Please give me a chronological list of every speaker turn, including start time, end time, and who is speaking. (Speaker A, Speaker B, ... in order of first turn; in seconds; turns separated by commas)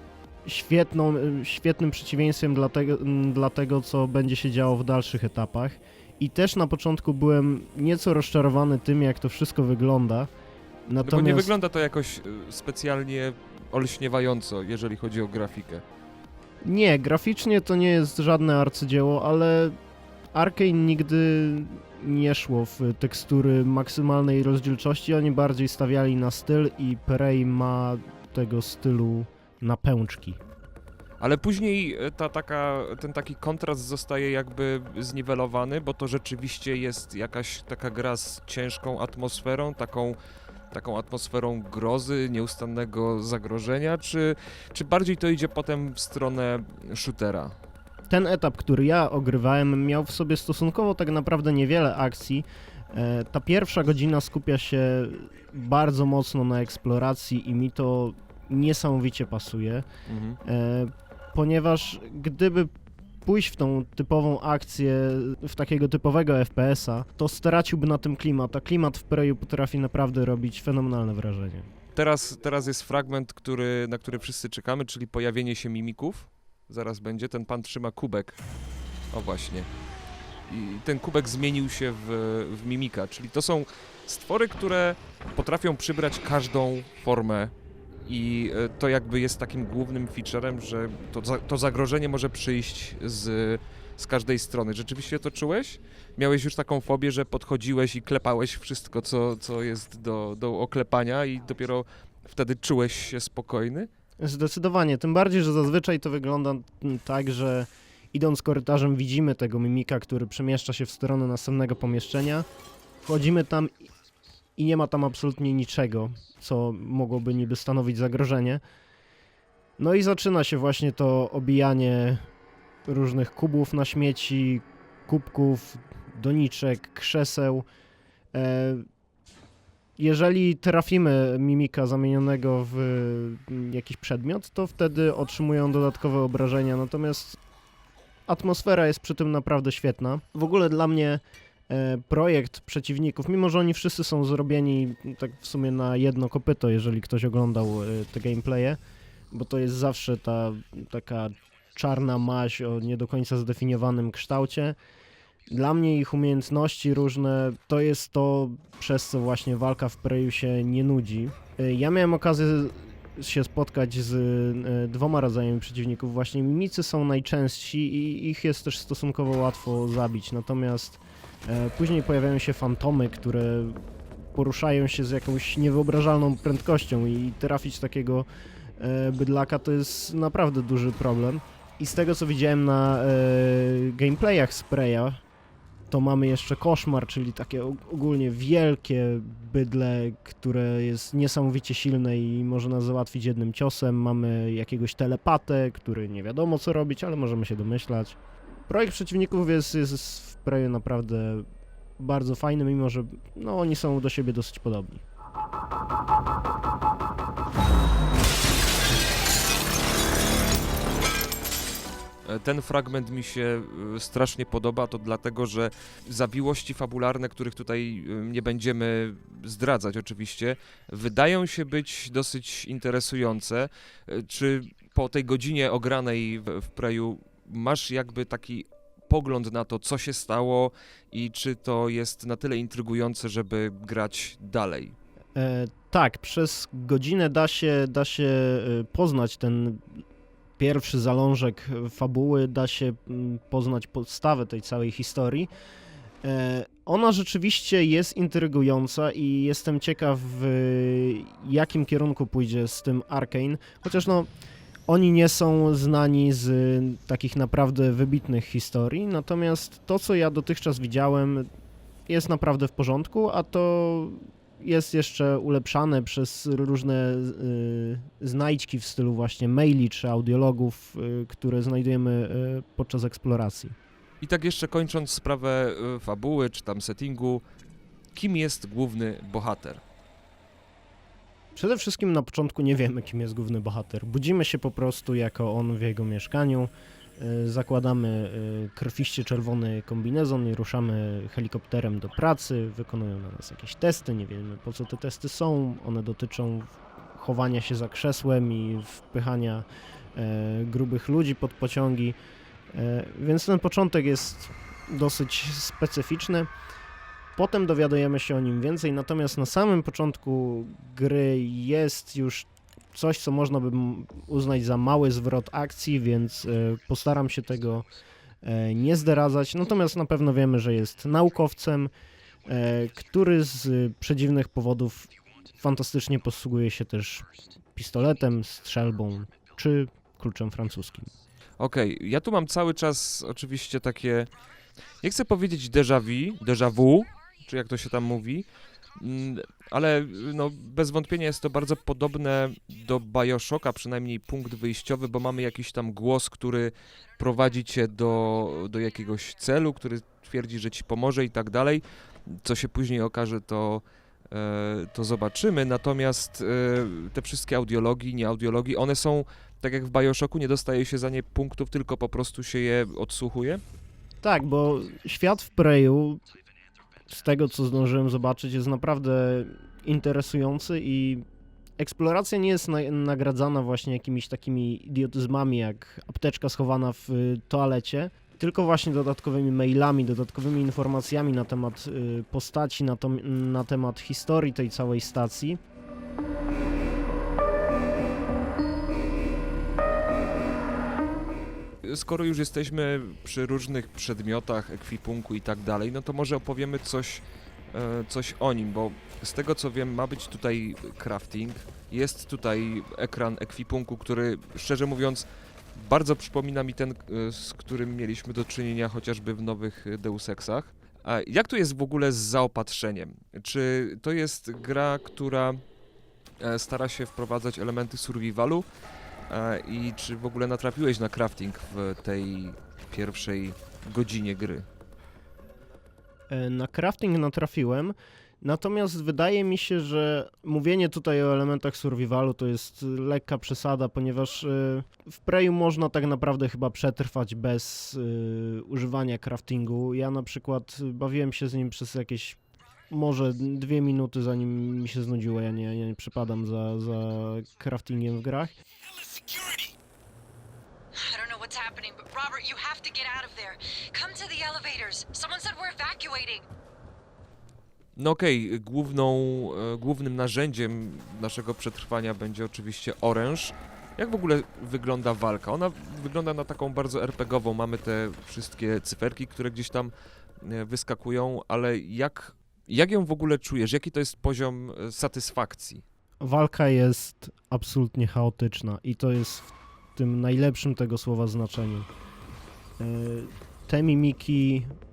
Speaker A: 0.5-10.3, Speaker A: 10.9-11.5, Speaker B: 11.0-15.8, Speaker A: 16.6-19.8, Speaker A: 20.3-30.4, Speaker B: 31.2-40.2, Speaker B: 40.7-47.6, Speaker A: 48.1-59.9, Speaker B: 60.1-60.4, Speaker A: 60.5-62.7, Speaker A: 63.2-71.7, Speaker B: 72.0-78.4, Speaker B: 79.1-79.7, Speaker B: 80.5-87.5, Speaker B: 88.0-103.9, Speaker A: 104.2-112.5, Speaker A: 113.0-113.7, Speaker A: 114.6-118.6, Speaker A: 119.8-122.2, Speaker A: 122.9-127.7, Speaker A: 128.3-128.8, Speaker A: 130.0-137.4, Speaker A: 138.3-148.8, Speaker A: 149.3-154.8, Speaker A: 155.5-173.8, Speaker A: 174.3-178.3, Speaker A: 178.8-185.2, Speaker A: 185.9-201.5, Speaker A: 202.0-205.0, Speaker B: 212.3-234.9, Speaker A: 235.4-239.8, Speaker A: 240.6-245.5, Speaker A: 246.2-254.3, Speaker A: 254.9-261.5, Speaker A: 262.1-273.8, Speaker B: 274.2-277.4, Speaker B: 278.1-279.8, Speaker A: 281.6-302.2, Speaker A: 302.7-306.5, Speaker A: 307.4-317.9, Speaker A: 318.4-321.9, Speaker A: 322.5-331.1, Speaker B: 331.6-334.3, Speaker B: 335.0-363.6, Speaker A: 364.2-366.2, Speaker A: 367.1-371.2, Speaker A: 371.8-385.6, Speaker B: 391.8-415.6, Speaker B: 416.4-418.7, Speaker B: 419.3-424.7, Speaker A: 426.3-442.4, Speaker A: 442.9-448.6, Speaker C: 451.0-456.5, Speaker B: 458.0-475.8, Speaker A: 476.2-481.9, Speaker A: 482.8-484.7